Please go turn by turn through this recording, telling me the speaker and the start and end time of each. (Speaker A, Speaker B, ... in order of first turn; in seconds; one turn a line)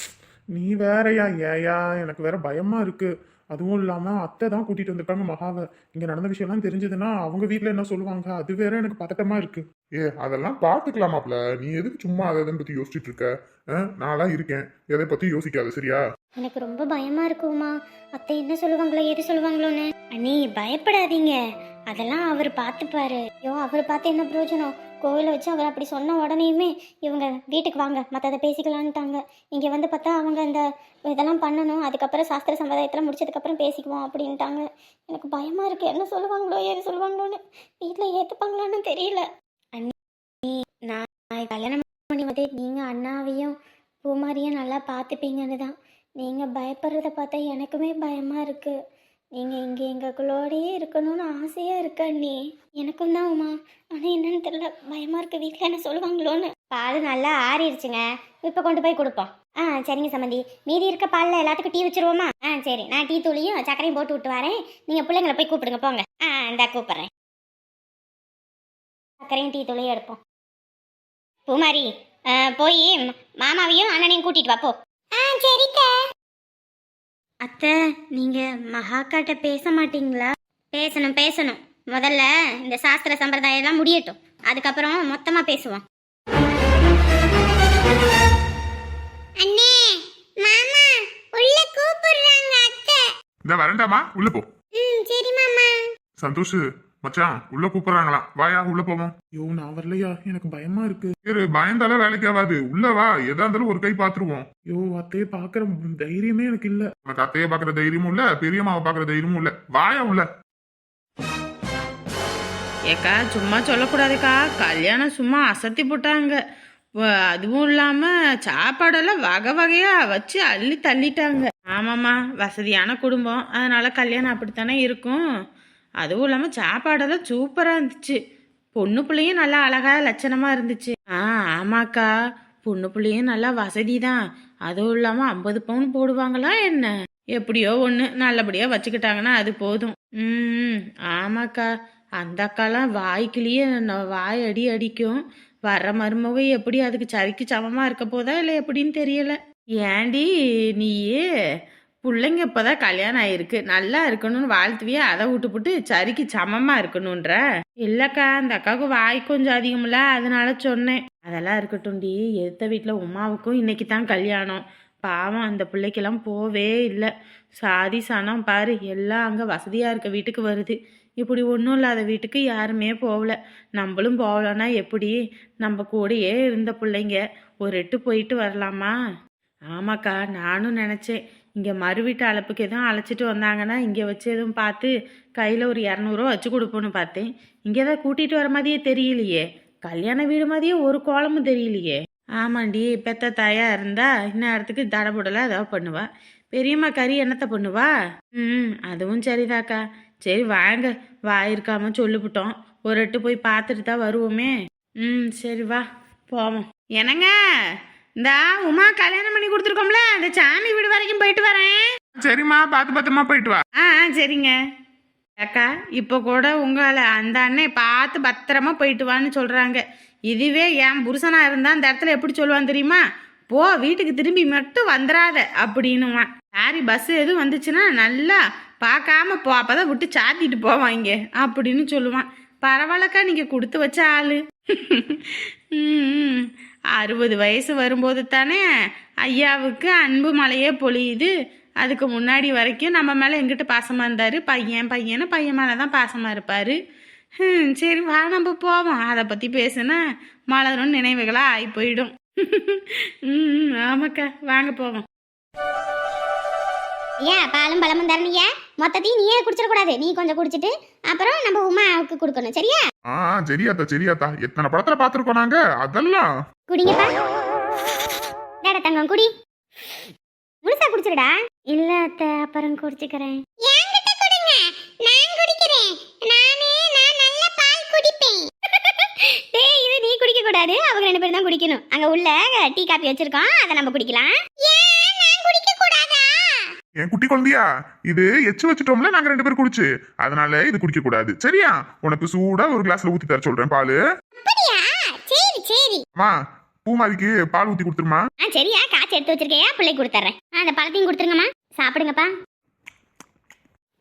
Speaker A: 0.5-16.0
Speaker B: 16.4-21.4
Speaker B: 21.9-39.3
Speaker B: 40.5-48.8
Speaker B: 49.4-67.1
Speaker B: 69.3-70.2
Speaker B: 71.5-75.9
Speaker B: 77.4-85.8
Speaker B: 89.4-93.0
Speaker A: 93.5-94.5
Speaker B: 94.8-95.8
Speaker A: 96.2-110.3
Speaker C: 112.9-116.4
Speaker C: 117.4-125.2
Speaker C: 126.0-128.2
Speaker C: 128.8-132.1
Speaker C: 132.7-141.7
Speaker C: 142.2-150.3
Speaker C: 150.8-151.2
Speaker C: 152.1-167.1
Speaker C: 167.6-178.9
Speaker C: 179.7-197.9
Speaker C: 198.4-204.5
Speaker C: 205.0-207.3
Speaker C: 208.2-211.8
Speaker A: 212.2-213.6
Speaker C: 213.8-214.5
Speaker C: 215.4-238.6
Speaker C: 239.3-241.3
Speaker C: 241.8-246.8
Speaker C: 247.4-250.0
Speaker C: 250.5-255.0
Speaker B: 257.2-262.9
Speaker A: 263.1-266.3
Speaker B: 266.7-267.1
Speaker B: 268.6-269.3
Speaker B: 270.6-286.7
Speaker A: 287.0-294.0
Speaker B: 294.4-296.0
Speaker A: 296.9-298.2
Speaker B: 298.4-302.3